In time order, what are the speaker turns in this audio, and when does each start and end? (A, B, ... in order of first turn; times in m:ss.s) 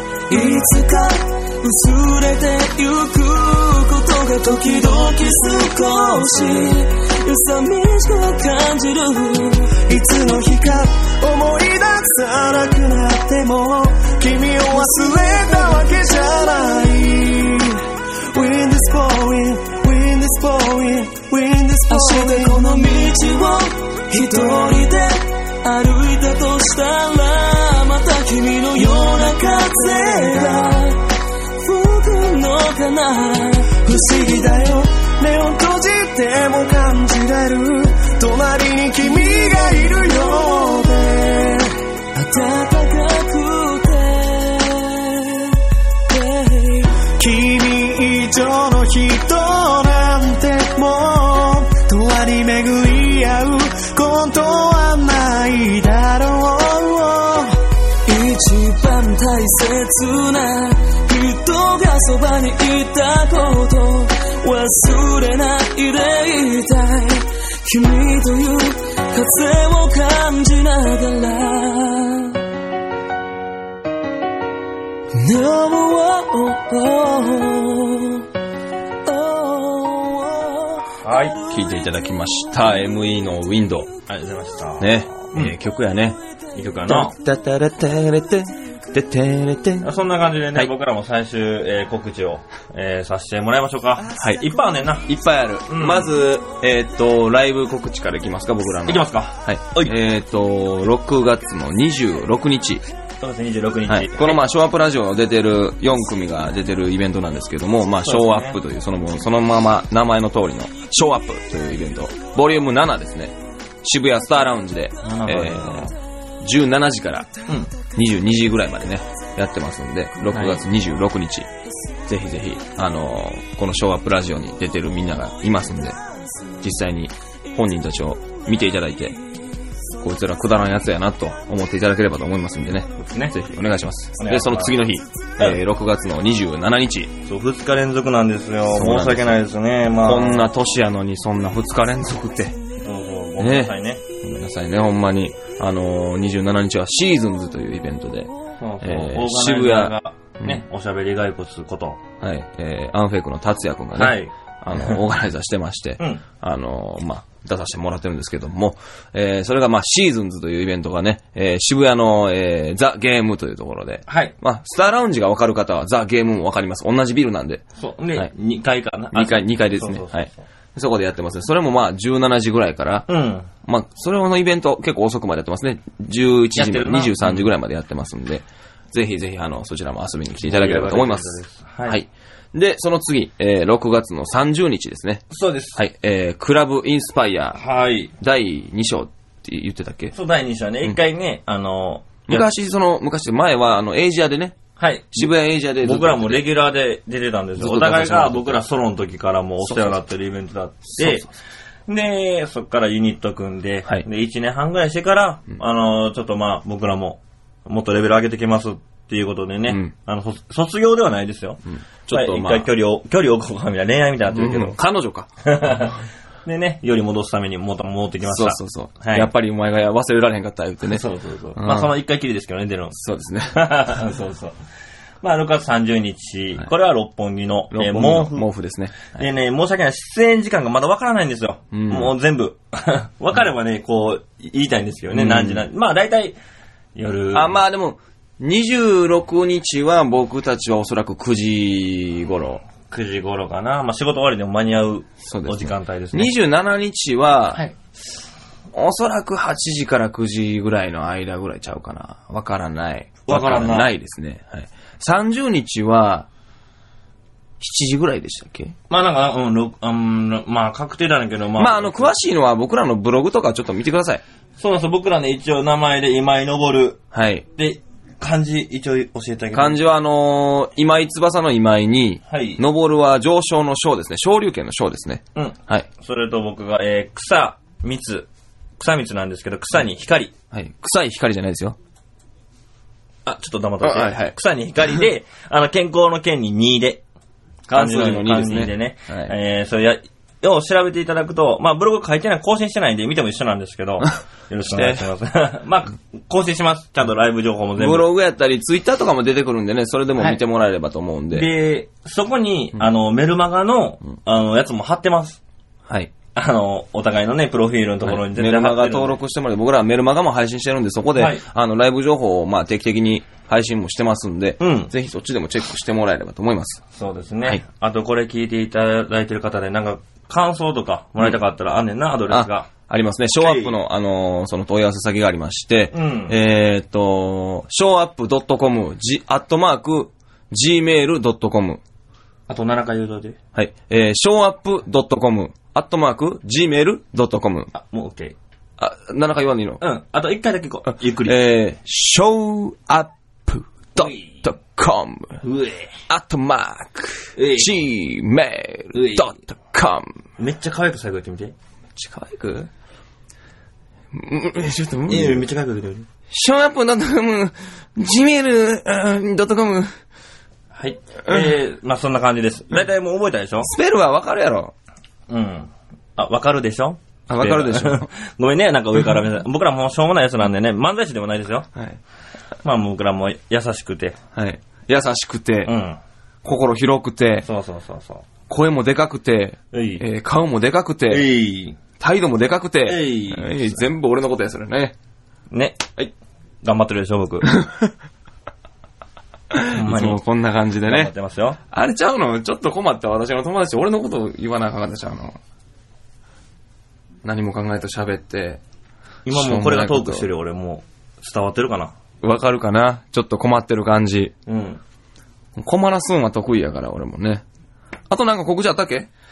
0:00.3-0:09.8 A
0:04.9-0:06.3 B
0:09.8-0:22.8 B
0:14.7-0:16.7 A
0:21.9-0:31.0 A
0:24.3-0:24.7 B
0:28.8-0:30.7 B
0:31.6-0:34.5 A
0:33.8-0:41.8 B
0:39.3-0:40.5 A
0:42.1-0:47.0 A
0:47.2-0:57.6 B
0:58.0-1:12.4 A
1:15.1-1:18.2 A
1:19.0-1:20.8 A
1:21.0-1:21.4 C
1:21.5-1:23.9 D
1:24.1-1:25.5 C
1:24.8-1:26.2 D
1:26.5-1:27.1 C
1:26.9-1:29.9 D
1:29.8-1:35.1 C
1:35.0-1:42.8 D
1:35.7-1:36.1 C
1:38.9-1:40.0 C
1:43.2-1:44.4 C
1:43.9-1:55.9 D
1:48.0-1:48.6 C
1:55.0-1:55.9 C
1:56.4-1:57.3 D
1:57.9-2:01.5 D
2:00.3-2:00.6 C
2:02.1-2:06.0 D
2:06.6-2:09.2 D
2:10.0-2:17.1 D
2:13.0-2:13.3 C
2:14.2-2:14.8 C
2:17.2-2:20.5 C
2:18.7-2:19.4 D
2:20.0-2:22.6 D
2:22.8-2:24.0 C
2:23.4-2:30.6 D
2:28.6-2:32.0 C
2:32.2-2:47.6 D
2:33.9-2:35.0 C
2:44.1-2:44.3 C
2:47.8-2:50.4 C
2:49.1-2:53.0 D
2:53.1-2:53.5 C
2:53.6-3:01.3 D
2:56.5-2:57.5 C
3:00.4-3:02.0 C
3:01.8-3:07.6 D
3:05.3-3:05.8 C
3:07.5-3:08.1 C
3:08.2-3:10.1 D
3:10.1-3:12.5 C
3:12.3-3:14.6 D
3:14.8-3:21.3 C
3:15.1-3:16.5 D
3:17.6-3:18.6 D
3:19.6-3:20.0 D
3:21.0-3:21.3 D
3:21.9-3:34.8 C
3:29.7-3:29.9 D
3:31.7-3:32.7 D
3:34.3-3:35.9 D
3:35.4-3:39.3 C
3:38.2-3:41.0 D
3:40.9-3:43.0 C
3:41.6-3:41.9 D
3:42.9-3:43.7 D
3:43.5-3:44.6 C
3:45.2-3:48.4 C
3:47.7-3:49.2 D
3:49.1-3:56.4 C
3:51.7-3:52.1 D
3:55.1-3:55.6 D
3:57.0-3:57.6 C
3:57.3-4:02.6 D
4:02.9-4:06.3 C
4:05.2-4:07.6 D
4:08.7-4:16.3 D
4:13.2-4:13.9 C
4:17.6-4:18.8 D
4:18.9-4:22.1 C
4:21.6-4:24.2 D
4:24.6-4:27.0 C
4:27.1-4:27.4 D
4:27.6-4:29.8 C
4:29.5-4:35.9 D
4:32.3-4:32.6 C
4:35.4-4:40.3 C
4:40.5-4:41.8 D
4:43.2-4:47.0 C
4:43.8-4:44.3 D
4:47.7-4:49.3 D
4:47.7-4:58.1 C
4:54.7-4:55.0 D
4:57.8-5:01.5 D
5:01.3-5:05.4 C
5:06.3-5:09.2 C
5:08.0-5:16.8 D
5:11.2-5:11.4 C
5:14.6-5:14.9 C
5:16.9-5:22.7 C
5:22.3-5:31.8 D
5:23.4-5:23.8 C
5:25.9-5:26.4 C
5:32.5-5:33.4 C
5:33.5-5:37.7 D
5:37.7-5:38.4 C
5:38.8-5:39.8 D
5:39.8-5:41.4 C
5:41.2-5:45.4 D
5:44.0-5:44.4 C
5:45.4-5:45.9 C
5:46.1-5:50.1 D
5:47.4-5:47.8 C
5:48.9-5:49.4 C
5:50.4-5:51.5 C
5:52.0-5:52.7 D
5:54.1-5:55.4 D
5:55.1-5:56.1 C
5:56.3-5:59.9 D
6:00.7-6:03.7 C
6:01.2-6:01.5 D
6:03.6-6:04.7 D
6:05.3-6:11.7 C
6:07.3-6:08.1 D
6:12.6-6:14.2 C
6:14.3-6:15.7 D
6:15.6-6:16.0 C
6:16.4-6:17.5 D
6:17.4-6:18.2 C
6:18.5-6:21.3 D
6:19.7-6:20.0 C
6:21.1-6:21.8 C
6:22.0-6:24.9 D
6:22.8-6:23.8 C
6:25.5-6:25.9 C
6:26.6-6:27.5 C
6:27.4-6:27.9 D
6:29.5-6:31.1 D
6:29.7-6:30.2 C
6:30.8-6:31.6 C
6:31.7-6:35.4 D
6:37.2-6:38.6 D
6:39.2-6:41.9 C
6:39.3-6:40.2 D
6:42.2-6:44.3 D
6:44.5-6:44.8 C
6:45.6-6:47.4 D
6:48.1-6:49.1 D